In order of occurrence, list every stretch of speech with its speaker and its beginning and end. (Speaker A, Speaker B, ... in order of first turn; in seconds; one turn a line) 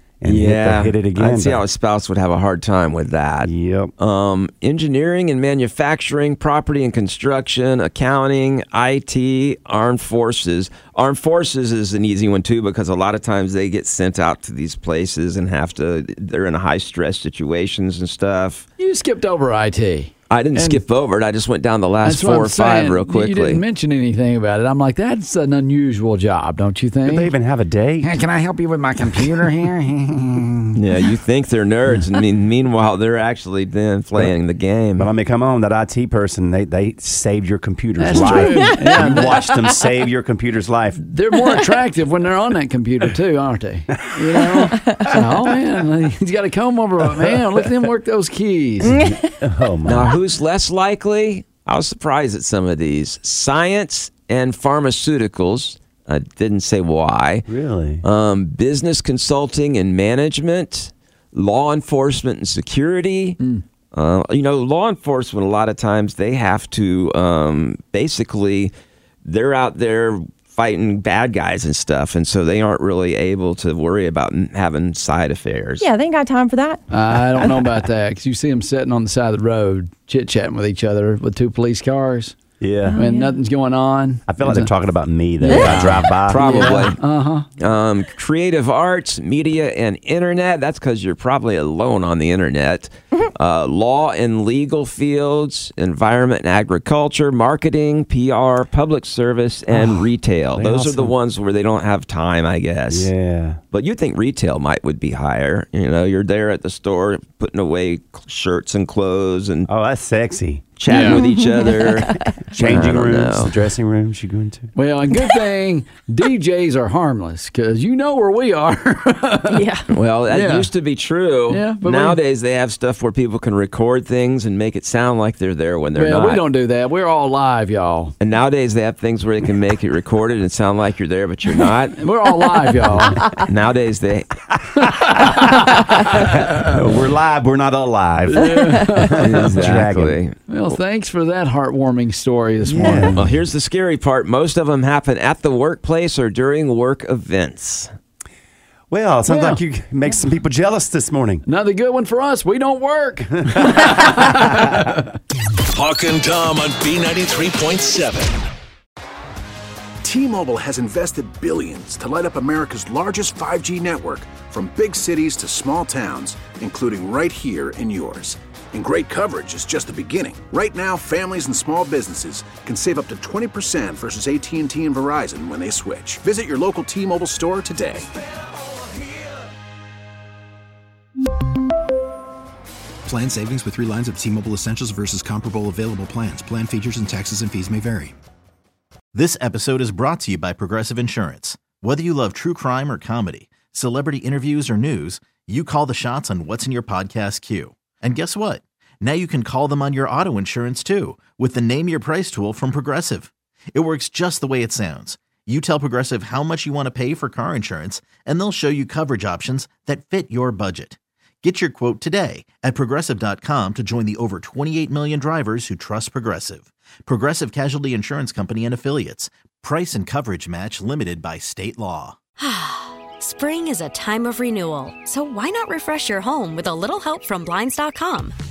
Speaker A: 0.2-1.6
Speaker B: 0.2-18.6
Speaker A: 3.4-3.9
Speaker C: 18.8-20.8
Speaker B: 20.3-23.6
Speaker C: 22.0-27.3
Speaker A: 27.0-28.1
Speaker C: 28.0-30.7
Speaker B: 30.7-35.1
Speaker A: 35.0-41.0
Speaker C: 38.0-39.5
Speaker D: 38.1-39.3
Speaker C: 41.0-49.1
Speaker A: 44.3-44.6
Speaker D: 44.8-45.2
Speaker A: 48.9-50.2
Speaker B: 49.8-57.5
Speaker A: 57.5-58.0
Speaker B: 58.0-63.4
Speaker B: 63.9-68.7
Speaker B: 69.2-75.9
Speaker D: 75.8-76.8
Speaker C: 76.9-82.3
Speaker A: 82.6-83.0
Speaker D: 82.8-83.3
Speaker C: 83.0-84.7
Speaker A: 84.3-86.8
Speaker C: 85.4-87.5
Speaker D: 85.5-85.8
Speaker B: 86.2-87.0
Speaker B: 87.6-103.1
Speaker A: 99.7-101.1
Speaker A: 102.9-103.6
Speaker B: 103.7-109.7
Speaker A: 109.7-110.7
Speaker B: 110.8-113.5
Speaker C: 110.9-111.2
Speaker D: 110.9-112.3
Speaker A: 112.5-114.7
Speaker C: 114.7-119.6
Speaker D: 119.5-119.8
Speaker B: 119.9-126.4
Speaker C: 120.3-120.7
Speaker C: 121.5-122.2
Speaker C: 125.9-128.1
Speaker B: 128.2-132.0
Speaker C: 132.0-133.3
Speaker B: 133.2-134.4
Speaker C: 134.8-136.8
Speaker A: 135.0-140.2
Speaker C: 138.3-139.5
Speaker B: 139.2-140.3
Speaker C: 140.5-143.3
Speaker B: 142.7-147.9
Speaker A: 142.7-143.2
Speaker A: 148.9-151.4
Speaker C: 149.3-149.6
Speaker C: 151.4-155.1
Speaker A: 153.5-154.2
Speaker E: 155.7-158.4
Speaker F: 160.0-178.1
Speaker G: 183.1-188.2
Speaker H: 189.1-222.1
Speaker G: 191.6-191.8
Speaker G: 193.4-193.7
Speaker G: 195.2-195.5
Speaker I: 222.4-228.3